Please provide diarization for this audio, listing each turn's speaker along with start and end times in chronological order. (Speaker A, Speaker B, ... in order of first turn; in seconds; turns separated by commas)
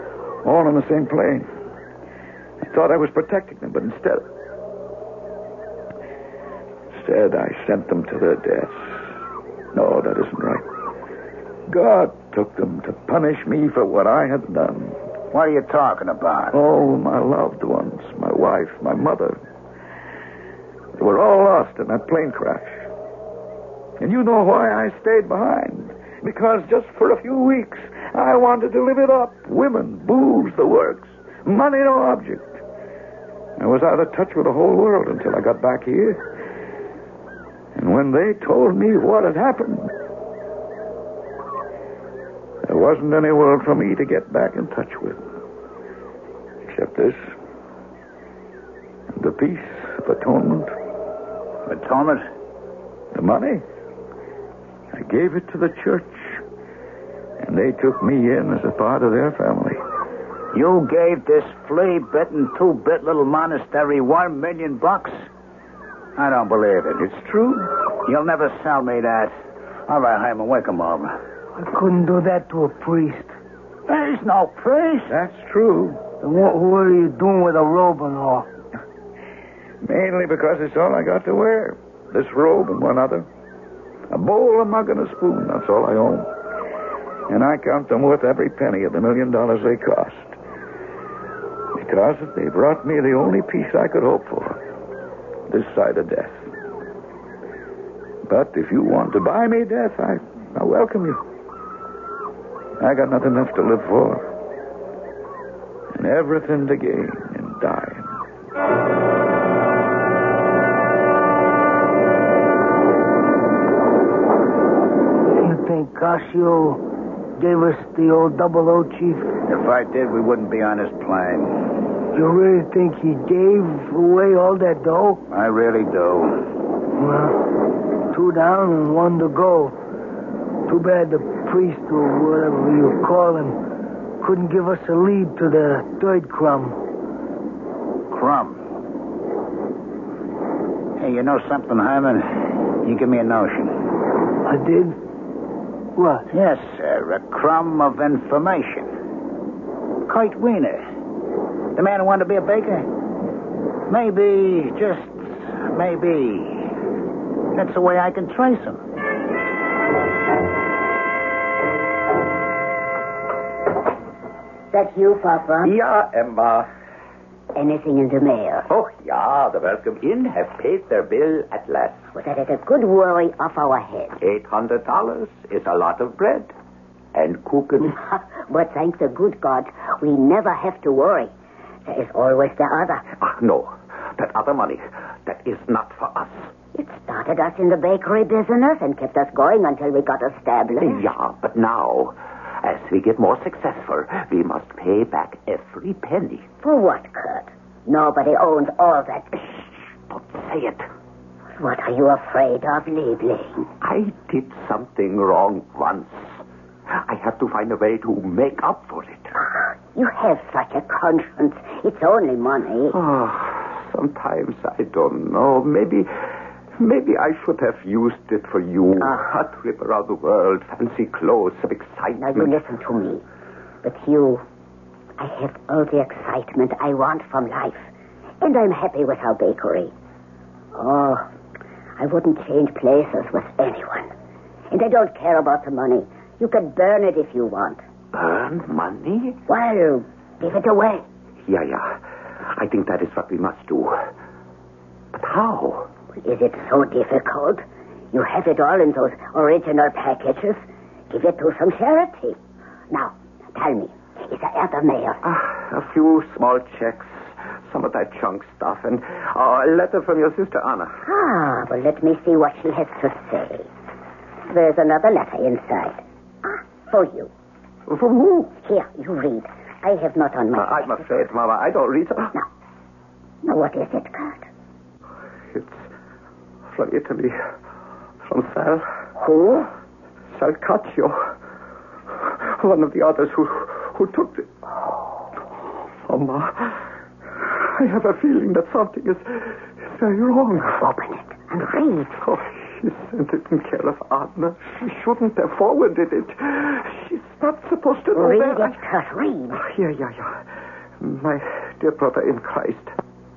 Speaker A: 0.4-1.5, Speaker A: 2.6-4.2, Speaker A: 6.9-8.9, Speaker A: 9.7-10.7, Speaker A: 11.7-15.0, Speaker B: 15.3-16.6, Speaker A: 16.5-19.4, Speaker A: 21.0-22.8, Speaker A: 24.0-32.6, Speaker A: 33.6-36.2, Speaker A: 37.8-39.9, Speaker A: 42.6-45.2, Speaker A: 46.7-47.2, Speaker A: 49.1-50.7, Speaker B: 51.7-52.2, Speaker A: 53.1-53.6, Speaker A: 54.9-56.4, Speaker A: 57.4-59.8, Speaker B: 60.5-65.1, Speaker B: 66.2-67.0, Speaker A: 67.0-67.6, Speaker B: 68.0-69.3, Speaker B: 69.9-71.1, Speaker C: 71.6-73.3, Speaker B: 73.9-75.2, Speaker A: 75.1-76.0, Speaker C: 76.2-78.5, Speaker A: 79.8-83.3, Speaker A: 84.1-86.3, Speaker A: 87.3-90.4, Speaker A: 91.8-94.6, Speaker A: 95.5-96.4, Speaker A: 98.3-101.2, Speaker A: 102.8-104.3, Speaker A: 106.0-108.1, Speaker C: 115.4-116.8, Speaker C: 117.4-119.3, Speaker B: 119.5-121.6, Speaker C: 122.1-125.2, Speaker B: 125.3-126.4, Speaker C: 127.0-129.8, Speaker C: 130.7-133.6, Speaker C: 134.2-136.8, Speaker B: 138.1-138.6, Speaker B: 141.0-143.8, Speaker C: 144.4-145.0, Speaker C: 145.9-146.3, Speaker B: 146.3-148.9, Speaker B: 150.1-150.8, Speaker B: 151.8-152.9, Speaker B: 153.9-156.7, Speaker B: 157.5-158.8, Speaker D: 164.7-165.7, Speaker E: 165.6-166.7, Speaker D: 167.6-168.7, Speaker E: 168.7-172.1, Speaker D: 172.1-174.2, Speaker E: 174.2-176.5, Speaker E: 177.1-178.0, Speaker D: 177.9-181.3, Speaker D: 181.9-183.0, Speaker E: 183.1-186.5, Speaker D: 186.7-191.1, Speaker E: 190.8-196.5, Speaker D: 196.6-199.4, Speaker E: 199.4-200.9, Speaker D: 201.6-203.7, Speaker E: 203.8-209.3, Speaker D: 209.4-212.9, Speaker E: 212.9-222.6, Speaker D: 222.2-223.2, Speaker D: 223.8-224.4, Speaker D: 225.2-227.9, Speaker D: 228.4-229.9, Speaker D: 230.8-231.3, Speaker D: 232.0-234.1, Speaker D: 234.7-237.8, Speaker E: 238.1-239.4, Speaker D: 239.5-241.1, Speaker E: 241.4-244.1, Speaker E: 245.1-245.9, Speaker D: 246.2-252.4, Speaker D: 252.9-255.2, Speaker E: 255.2-261.0, Speaker D: 261.1-263.7, Speaker D: 264.5-267.3, Speaker E: 267.9-268.6, Speaker D: 268.6-271.0, Speaker E: 270.5-272.4, Speaker D: 273.4-274.5, Speaker E: 275.5-275.9, Speaker E: 276.7-277.4, Speaker E: 278.2-278.9, Speaker D: 279.2-279.7, Speaker E: 280.3-281.3, Speaker E: 282.2-284.5, Speaker E: 286.0-290.8, Speaker D: 290.7-292.1, Speaker E: 292.1-298.8, Speaker D: 298.1-299.6, Speaker E: 299.5-300.4, Speaker E: 301.0-302.9